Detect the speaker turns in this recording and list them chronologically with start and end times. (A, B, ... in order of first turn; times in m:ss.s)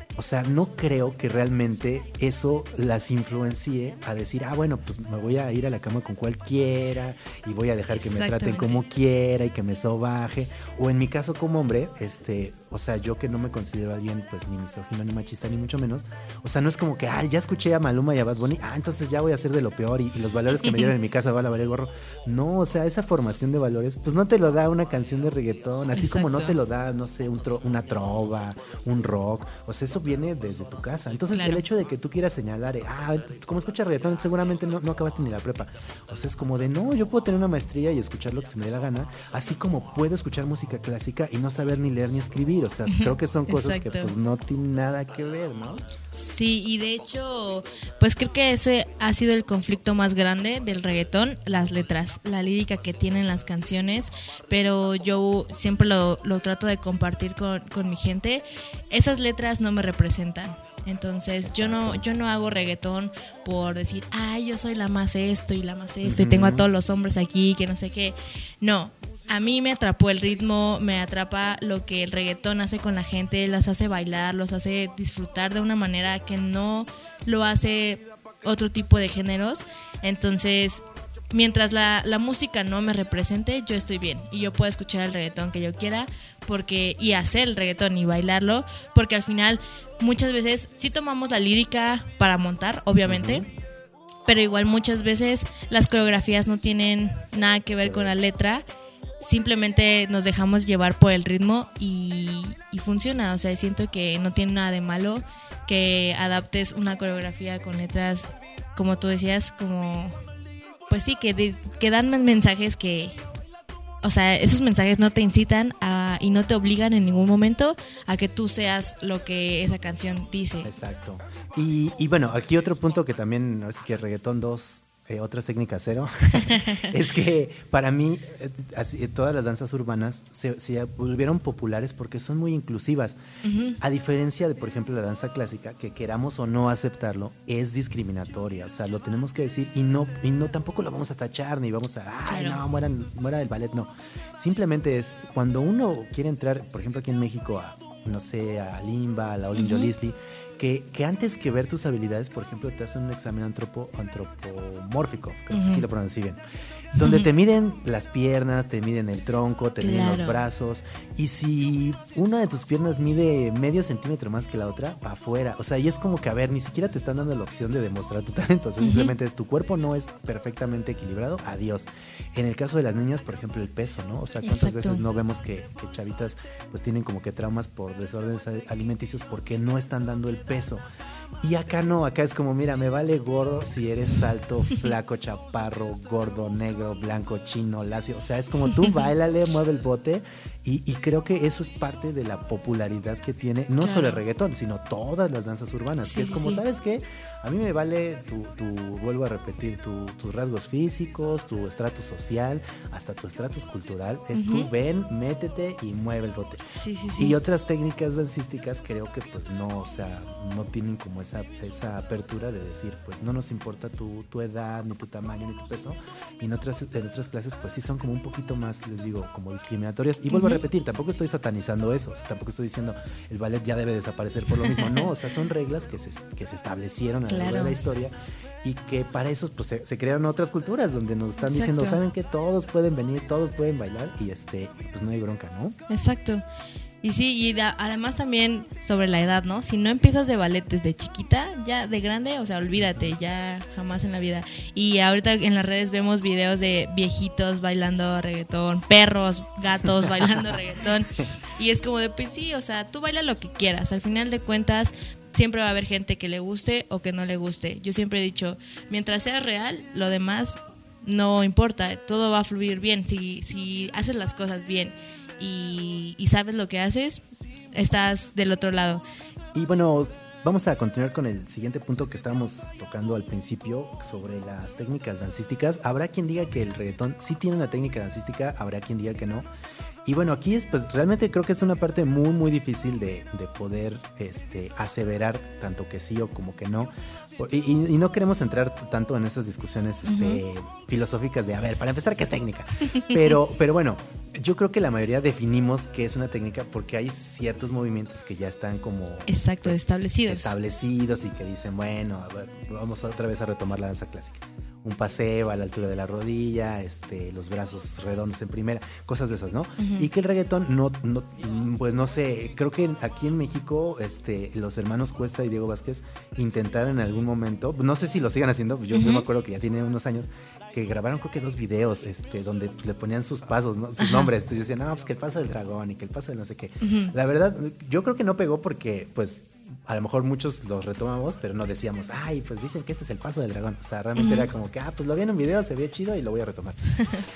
0:00.2-0:45.8 A
0:07.9-0:08.8 B
0:20.5-0:20.9 B
0:25.9-0:26.6 B
0:31.3-0:31.6 B
0:42.9-0:44.1 B
0:46.1-1:33.5 B
1:01.4-1:02.0 A
1:06.0-1:06.6 A
1:33.0-1:33.4 A
1:34.2-1:38.6 B
1:37.8-1:38.1 A
1:39.2-1:50.1 B
1:50.9-1:53.1 B
1:54.0-2:00.7 B
2:00.6-2:13.2 A
2:06.3-2:06.9 B
2:13.4-2:13.8 B
2:13.8-2:36.4 A
2:22.3-2:22.6 B
2:29.5-2:29.9 B
2:35.5-2:35.9 B
2:36.9-3:00.8 A
2:37.0-2:37.3 B
2:39.8-2:40.4 B
2:48.8-2:49.1 B
2:54.4-2:55.0 B
3:01.4-3:55.8 A
3:13.8-3:14.2 B
3:16.0-3:16.6 B
3:24.3-3:24.7 B
3:26.7-3:27.4 B
3:40.3-3:40.6 B
3:44.7-3:45.0 B
3:47.3-3:47.8 B
3:51.4-3:52.0 B
3:55.9-3:56.4 B
3:57.0-4:27.2 B
4:10.0-4:10.4 A
4:27.7-4:29.0 B
4:29.5-4:39.5 A
4:40.0-5:36.9 A
4:50.0-4:50.4 B
4:59.3-5:00.6 B
5:09.8-5:10.1 B
5:18.9-5:19.3 B
5:24.0-5:24.3 B
5:26.8-5:27.1 B
5:34.2-5:34.5 B